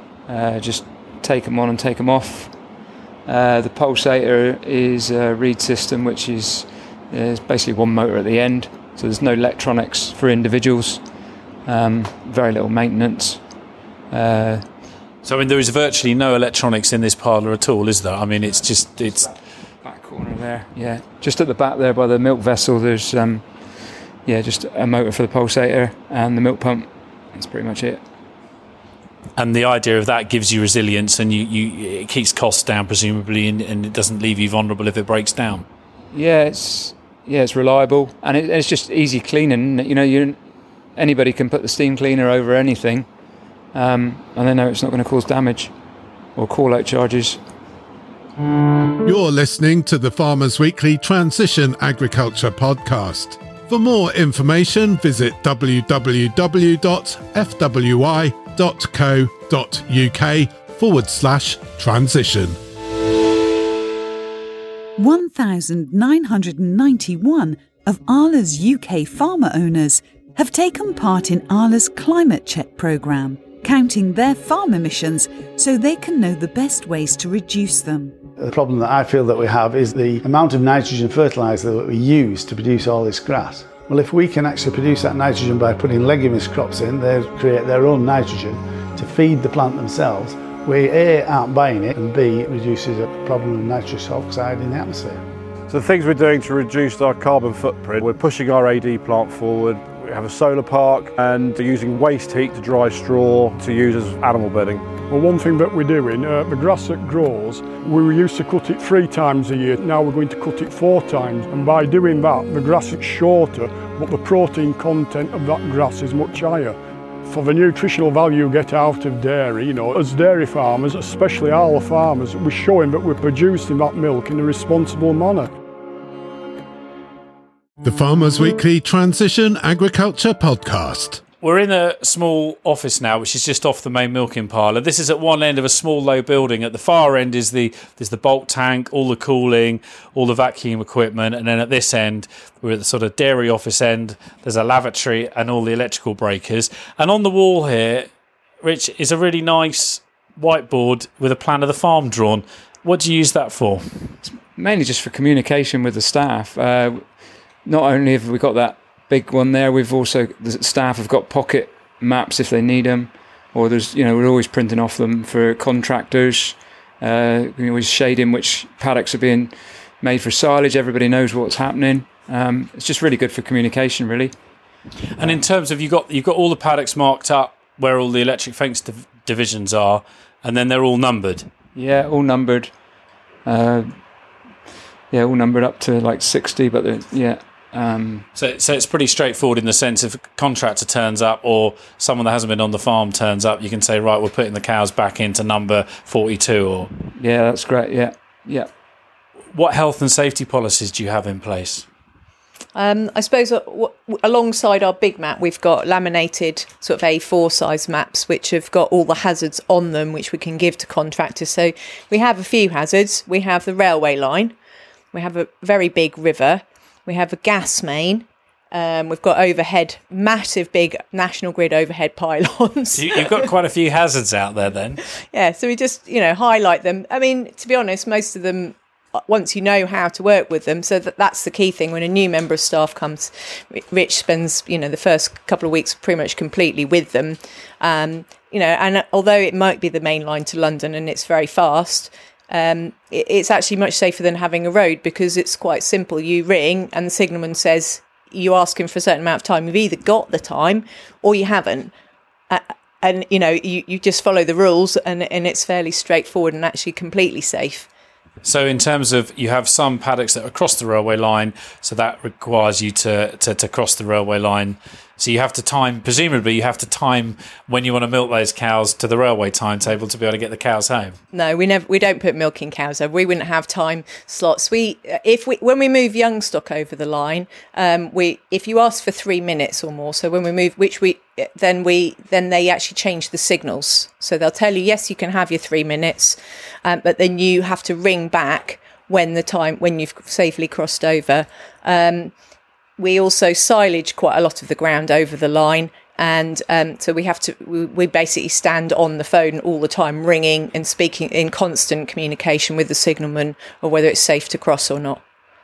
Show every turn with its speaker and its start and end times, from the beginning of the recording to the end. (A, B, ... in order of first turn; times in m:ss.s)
0:00.3-0:02.5 A
0:03.3-0:11.0 A
0:11.6-0:13.4 A
0:14.1-0:14.6 A
0:15.2-0:19.3 B
0:19.8-0:23.5 A
0:24.3-0:28.0 A
0:29.4-0:35.6 B
0:36.1-0:40.4 A
0:41.0-0:43.1 A
0:43.7-0:45.7 A
0:46.4-0:47.4 A
0:49.0-1:02.6 C
1:05.0-1:18.2 D
1:18.4-1:35.2 E
1:35.7-1:45.0 F
1:45.0-2:05.5 G
2:07.8-2:11.2 C
2:11.4-2:28.1 B
2:28.6-2:33.8 B
2:34.3-2:37.1 A
2:37.6-2:54.3 A
2:55.2-3:01.5 B
3:01.8-3:02.7 A
3:03.4-3:04.0 A
3:05.1-3:08.2 A
3:08.4-3:16.9 B
3:17.2-3:18.7 A
3:19.5-3:21.8 B
3:22.8-3:34.5 H
3:35.1-3:43.2 H
3:43.0-3:45.0 B
3:45.3-3:48.8 H
3:49.3-4:11.9 H
4:12.5-4:17.9 H
4:18.4-4:31.2 B
4:31.3-4:52.3 H
4:53.0-5:05.2 H